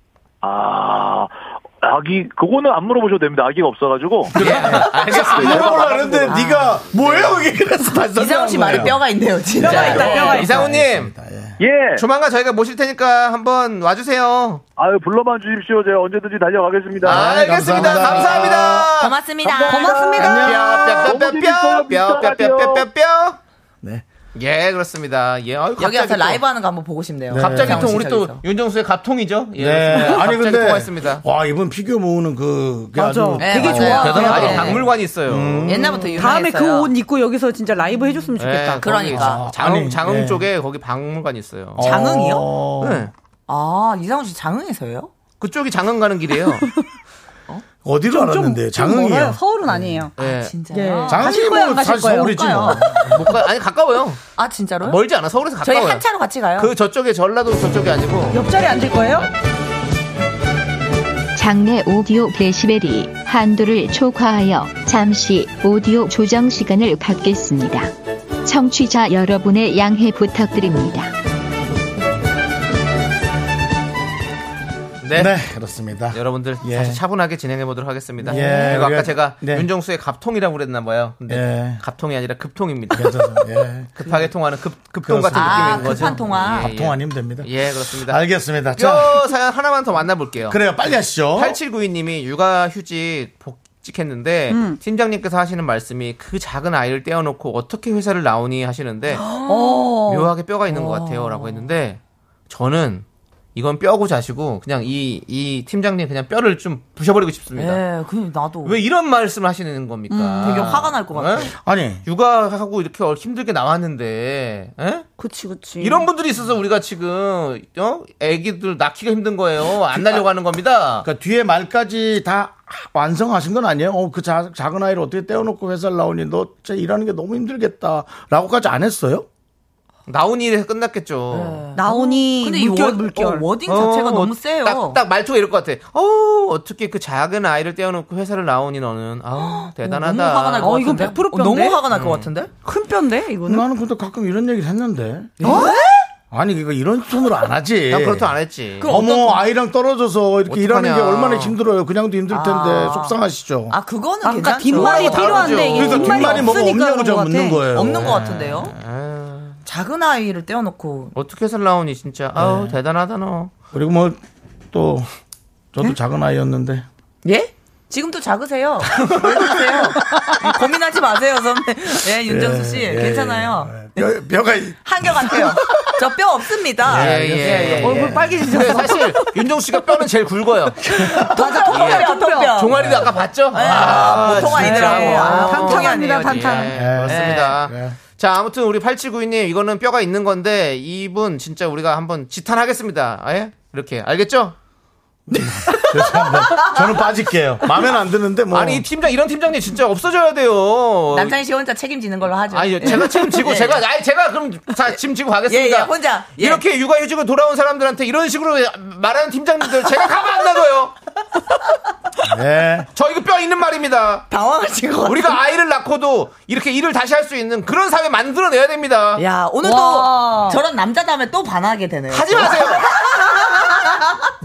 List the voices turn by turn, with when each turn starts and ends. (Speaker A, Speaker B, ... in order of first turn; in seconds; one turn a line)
Speaker A: 0.4-6.4
Speaker B: 4.3-9.0
Speaker C: 4.4-6.0
Speaker D: 6.3-6.8
Speaker D: 8.1-10.4
Speaker E: 9.6-10.6
Speaker C: 9.7-11.1
Speaker B: 9.7-11.6
Speaker A: 11.6-12.0
Speaker C: 12.0-14.6
Speaker A: 14.8-18.1
Speaker B: 17.0-18.9
Speaker C: 17.0-19.1
Speaker D: 18.9-20.4
Speaker A: 19.5-22.9
Speaker E: 19.7-20.2
Speaker C: 20.0-23.4
Speaker B: 20.2-21.1
Speaker C: 24.4-26.4
Speaker D: 25.8-28.4
Speaker B: 27.3-28.0
Speaker C: 27.4-31.2
Speaker B: 29.6-34.7
Speaker E: 33.0-34.8
Speaker D: 33.4-34.9
Speaker C: 33.8-36.1
Speaker B: 35.2-36.1
Speaker D: 35.7-36.9
Speaker E: 36.1-39.2
Speaker C: 38.4-41.9
Speaker D: 38.8-39.4
Speaker B: 39.1-40.5
Speaker B: 41.8-43.1
Speaker D: 41.8-42.5
Speaker C: 42.8-43.1
Speaker D: 43.5-45.1
Speaker C: 45.4-46.7
Speaker B: 47.8-50.0
Speaker E: 48.1-50.1
Speaker C: 50.2-50.5
Speaker D: 50.2-51.6
Speaker E: 50.7-52.8
Speaker B: 51.1-53.0
Speaker D: 52.2-52.9
Speaker C: 53.0-54.2
Speaker D: 54.4-55.0
Speaker C: 54.8-56.0
Speaker D: 55.6-56.7
Speaker C: 56.6-58.4
Speaker E: 58.3-59.3
Speaker F: 61.4-67.9
Speaker F: 68.5-71.1
Speaker C: 75.0-75.3
Speaker B: 75.1-77.0
Speaker C: 76.1-83.4
Speaker B: 78.3-79.7
Speaker D: 78.3-78.8
Speaker B: 81.3-81.8
Speaker B: 83.0-84.0
Speaker C: 84.0-88.2
Speaker B: 85.0-89.2
Speaker D: 85.3-86.7
Speaker C: 88.7-90.6
Speaker B: 90.5-91.6
Speaker C: 91.3-99.2
Speaker E: 94.5-94.8
Speaker E: 99.2-100.3
Speaker D: 99.2-100.0
Speaker C: 100.1-107.8
Speaker D: 100.7-101.7
Speaker D: 107.5-108.8
Speaker C: 108.6-111.5
Speaker E: 110.1-110.8
Speaker D: 110.4-111.5
Speaker B: 111.6-112.0
Speaker C: 112.0-115.1
Speaker E: 115.2-116.1
Speaker C: 115.8-121.1
Speaker B: 121.0-129.3
Speaker C: 130.1-131.6
Speaker D: 131.3-135.0
Speaker E: 131.7-133.5
Speaker C: 133.7-140.8
Speaker D: 139.3-142.5
Speaker E: 140.6-141.9
Speaker C: 141.9-142.3
Speaker E: 142.6-143.6
Speaker B: 143.5-145.6
Speaker D: 145.4-146.0
Speaker E: 145.4-145.8
Speaker B: 146.3-148.3
Speaker C: 147.9-148.9
Speaker D: 148.8-149.4
Speaker B: 148.8-153.8
Speaker C: 150.5-151.6
Speaker D: 152.3-153.2
Speaker D: 153.7-156.6
Speaker E: 154.2-157.7
Speaker C: 154.7-156.4
Speaker B: 155.8-158.0
Speaker D: 157.7-158.8
Speaker C: 157.9-159.6
Speaker D: 159.7-161.1
Speaker C: 161.1-163.5
Speaker B: 162.4-162.8
Speaker B: 163.7-164.2
Speaker B: 164.7-165.1
Speaker B: 165.7-166.8
Speaker D: 167.2-174.2
Speaker E: 170.1-170.5
Speaker B: 172.2-175.9
Speaker D: 174.8-178.0
Speaker B: 176.8-178.5
Speaker C: 176.9-180.8
Speaker E: 177.8-179.3
Speaker B: 181.0-181.4
Speaker E: 181.2-182.6
Speaker D: 181.3-187.6
Speaker C: 181.7-194.6
Speaker B: 182.8-183.1
Speaker B: 184.1-184.8
Speaker E: 184.5-186.9
Speaker B: 186.8-188.0
Speaker B: 195.3-198.8
Speaker D: 196.7-196.9
Speaker C: 198.5-201.4
Speaker D: 201.1-203.8
Speaker C: 202.5-210.9
Speaker D: 205.5-206.6
Speaker B: 212.2-212.9
Speaker C: 212.9-214.3
Speaker D: 214.3-215.4
Speaker C: 215.1-219.2
Speaker D: 219.2-224.2
Speaker E: 219.6-220.6
Speaker C: 222.1-222.9